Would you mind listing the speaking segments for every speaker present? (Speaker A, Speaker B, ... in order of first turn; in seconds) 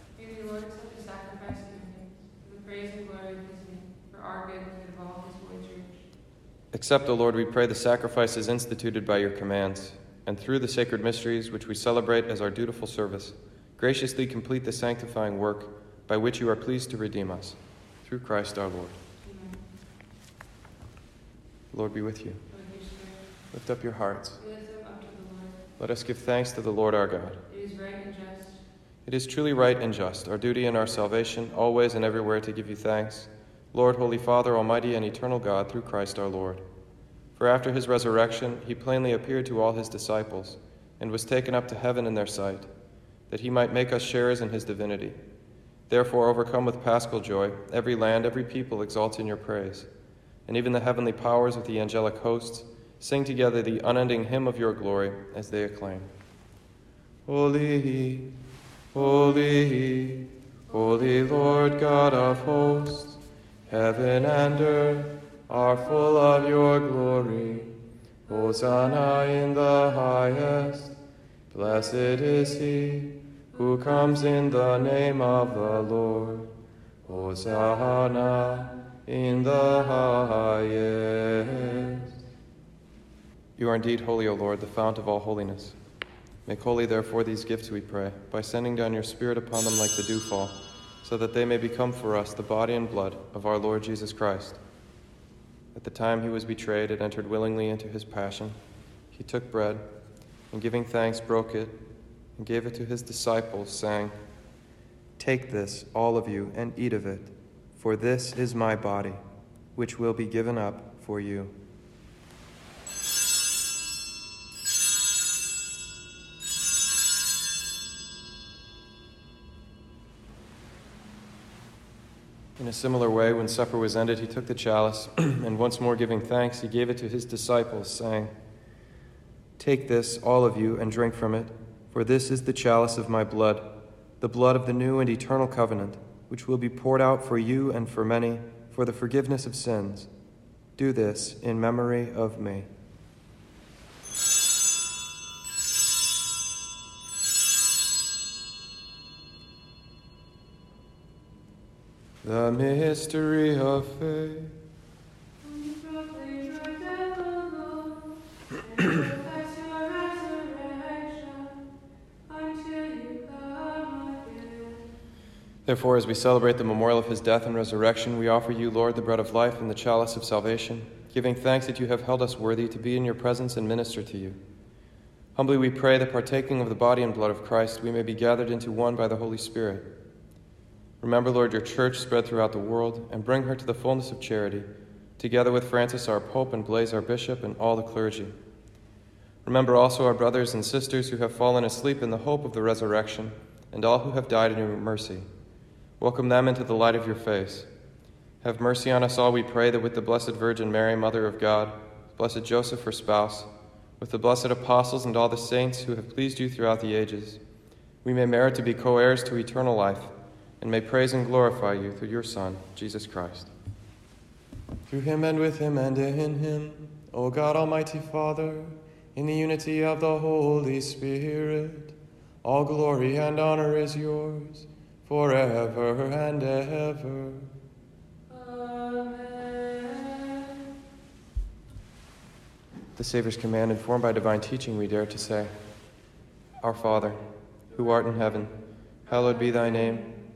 Speaker A: 0.1-6.0, 19.2-19.6, 22.5-23.2, 24.4-25.6, 27.5-28.6, 155.4-161.7, 162.3-164.9, 228.3-230.7, 239.3-239.7
Speaker B: 6.7-19.0, 21.7-22.4, 23.5-24.4, 25.8-27.4, 29.0-36.6, 37.4-42.7, 43.3-45.2, 45.9-49.9, 50.5-56.1, 57.2-58.4, 58.9-71.0, 71.5-76.5, 77.0-82.1, 83.6-85.8, 86.5-94.6, 95.7-98.5, 99.1-99.8, 100.5-101.8, 102.3-104.1, 105.2-109.2, 109.7-111.6, 122.6-128.3, 129.6-140.1, 140.8-142.7, 152.2-154.6, 165.7-174.4, 175.3-179.9, 181.0-188.3, 189.4-195.3, 196.0-197.7, 198.4-203.5, 204.0-207.4, 208.0-213.5, 214.9-227.5, 232.9-235.5, 236.6-240.1